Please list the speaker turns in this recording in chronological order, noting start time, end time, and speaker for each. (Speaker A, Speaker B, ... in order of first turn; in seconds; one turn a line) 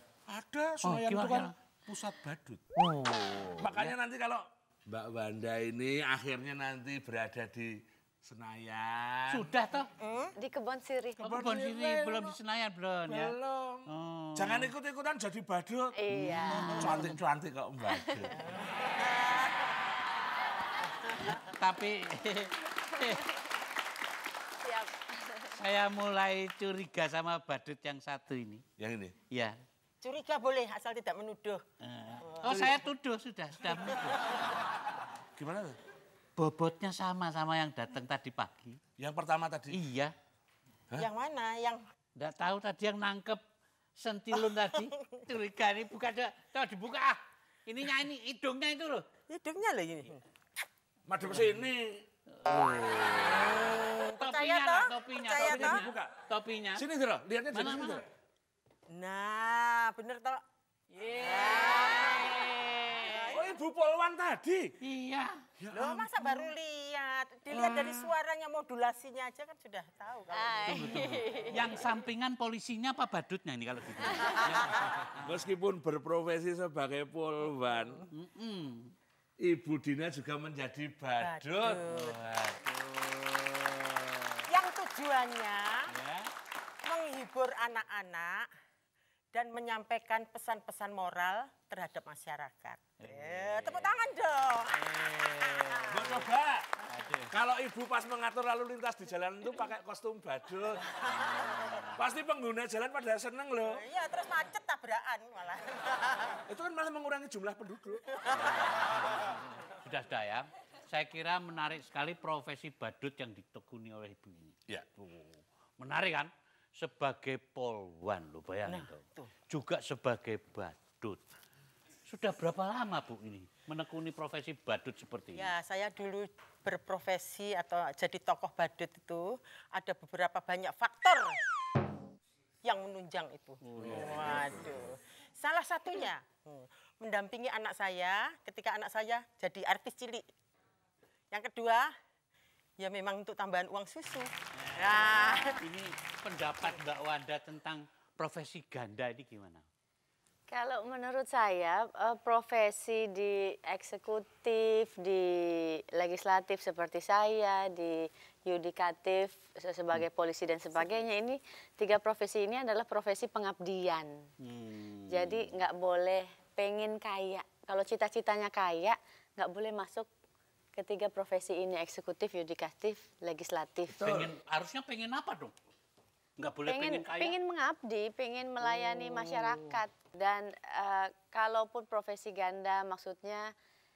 Speaker A: 0.3-2.6
Speaker B: 0.8-1.5
Speaker B: 2.9-3.9
Speaker A: 3.6-9.5
Speaker B: 9.3-9.9
Speaker C: 10.0-10.4
Speaker D: 10.4-11.3
Speaker A: 11.2-12.4
Speaker B: 11.2-13.4
Speaker A: 13.1-18.4
Speaker B: 13.9-14.7
Speaker D: 16.0-16.9
Speaker B: 16.1-17.2
Speaker D: 17.9-18.3
Speaker C: 18.6-19.5
Speaker B: 21.2-23.3
Speaker D: 24.6-25.6
Speaker B: 25.5-28.6
Speaker A: 28.8-29.2
Speaker B: 29.3-29.6
Speaker C: 30.0-31.6
Speaker B: 31.8-34.7
Speaker C: 32.2-32.9
Speaker A: 35.4-35.8
Speaker B: 36.4-38.8
Speaker A: 39.0-39.8
Speaker B: 39.7-40.1
Speaker C: 41.0-41.8
Speaker B: 42.2-43.4
Speaker B: 44.0-49.1
Speaker C: 49.3-50.2
Speaker A: 51.1-52.0
Speaker B: 52.4-56.9
Speaker A: 53.3-53.6
Speaker C: 53.6-55.8
Speaker A: 55.4-56.2
Speaker A: 56.8-58.0
Speaker B: 57.5-58.1
Speaker C: 58.9-60.4
Speaker B: 61.0-63.3
Speaker C: 61.2-62.5
Speaker C: 63.0-63.5
Speaker A: 63.2-64.8
Speaker B: 64.8-65.5
Speaker A: 65.6-66.5
Speaker C: 65.7-71.4
Speaker D: 70.3-71.6
Speaker B: 70.7-75.3
Speaker A: 75.2-78.1
Speaker B: 78.1-78.9
Speaker A: 79.4-81.9
Speaker C: 81.2-82.2
Speaker B: 81.9-84.5
Speaker C: 84.5-85.9
Speaker B: 85.9-86.3
Speaker C: 86.8-88.5
Speaker C: 89.3-94.8
Speaker B: 93.0-94.0
Speaker B: 94.7-96.3
Speaker C: 95.5-96.0
Speaker A: 95.9-96.8
Speaker B: 96.8-97.3
Speaker A: 97.3-101.1
Speaker B: 101.2-102.0
Speaker A: 101.9-103.8
Speaker C: 103.6-106.4
Speaker A: 106.5-108.2
Speaker B: 108.3-121.2
Speaker A: 114.7-115.0
Speaker C: 118.7-119.3
Speaker B: 122.1-125.5
Speaker C: 125.3-131.4
Speaker C: 132.6-140.3
Speaker B: 133.7-134.3
Speaker A: 133.9-134.2
Speaker C: 141.3-141.9
Speaker C: 142.8-145.6
Speaker B: 144.6-149.7
Speaker D: 150.5-164.2
Speaker B: 164.4-165.6
Speaker D: 165.1-170.1
Speaker D: 170.8-174.0
Speaker A: 173.9-174.3
Speaker B: 174.0-175.5
Speaker B: 176.4-177.4
Speaker D: 176.7-183.5
Speaker B: 179.2-179.7